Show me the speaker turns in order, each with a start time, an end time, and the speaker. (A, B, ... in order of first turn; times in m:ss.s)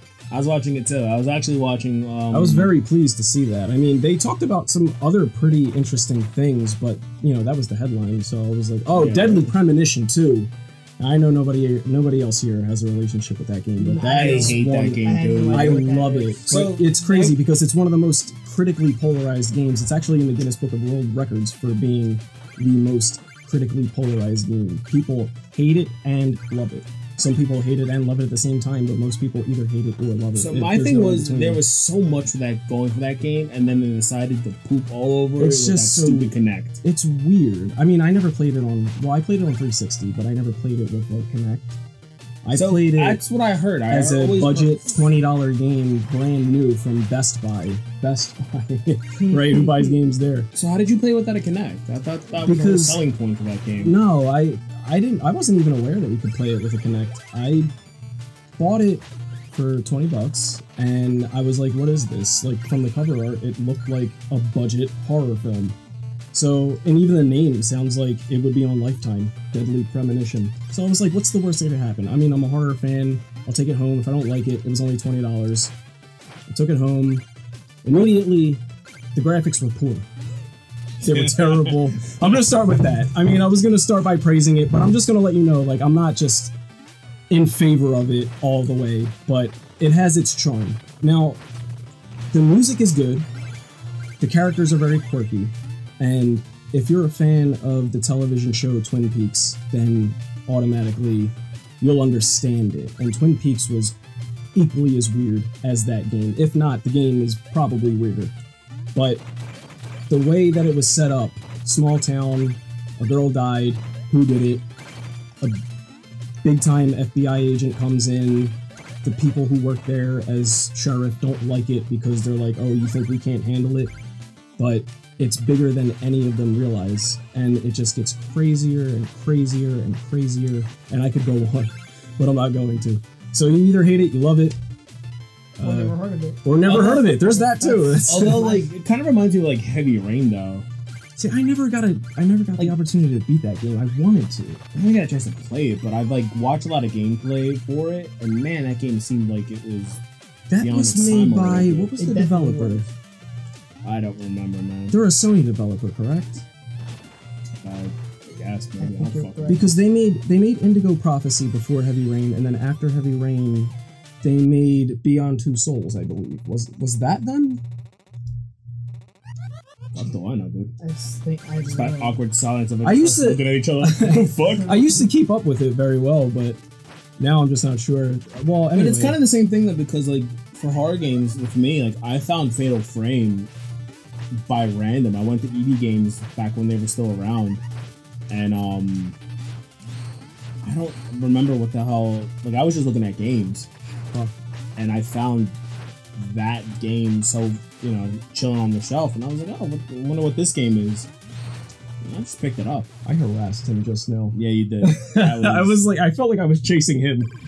0:00.3-0:02.7 A
0:02.3-0:31.6 B
0:08.9-0:09.5 A
0:13.8-0:16.5 C
0:14.1-0:15.9 A
0:16.4-0:17.4 A
0:30.4-0:36.8 A
0:35.4-0:41.8 B
0:42.4-0:43.2 B
0:42.5-0:45.1 A
0:43.9-0:50.5 B
0:49.3-0:50.0 C
0:50.5-0:54.0 A
0:52.4-0:53.0 B
0:53.8-0:57.7 B
0:58.6-1:05.8 B
1:06.3-1:15.7 B
1:16.5-1:17.3 B
1:17.8-1:18.6 B
1:19.1-1:20.1 B
1:21.0-1:22.4 A
1:21.0-1:26.6 B
1:27.3-1:31.4 B
1:32.3-1:33.3 B
1:34.2-1:44.0 B
1:44.6-1:48.3 B
1:49.0-1:49.2 B
1:50.1-1:54.7 B
1:56.4-2:03.9 B
2:04.6-2:14.6 B
2:15.6-2:18.6 B
2:15.6-2:16.4 C
2:16.6-2:17.4 A
2:17.2-2:18.7 C
2:18.0-2:20.7 A
2:21.2-2:24.6 B
2:24.7-2:30.0 A
2:30.5-2:32.9 B
2:30.6-2:31.9 A
2:32.0-2:32.9 C
2:33.8-2:35.0 A
2:34.9-2:36.4 B
2:37.6-2:39.7 A
2:38.8-2:39.7 C
2:39.5-2:47.6 B
2:49.9-2:50.7 A
2:50.8-2:52.2 C
2:51.6-2:55.0 A
2:52.8-2:56.6 B
2:57.2-2:59.2 B
2:58.7-3:03.5 A
3:04.4-3:07.6 A
3:08.3-3:09.2 A
3:10.6-3:13.7 A
3:14.8-3:15.6 A
3:16.2-3:21.1 A
3:22.0-3:22.9 A
3:23.0-3:27.3 B
3:24.3-3:25.9 A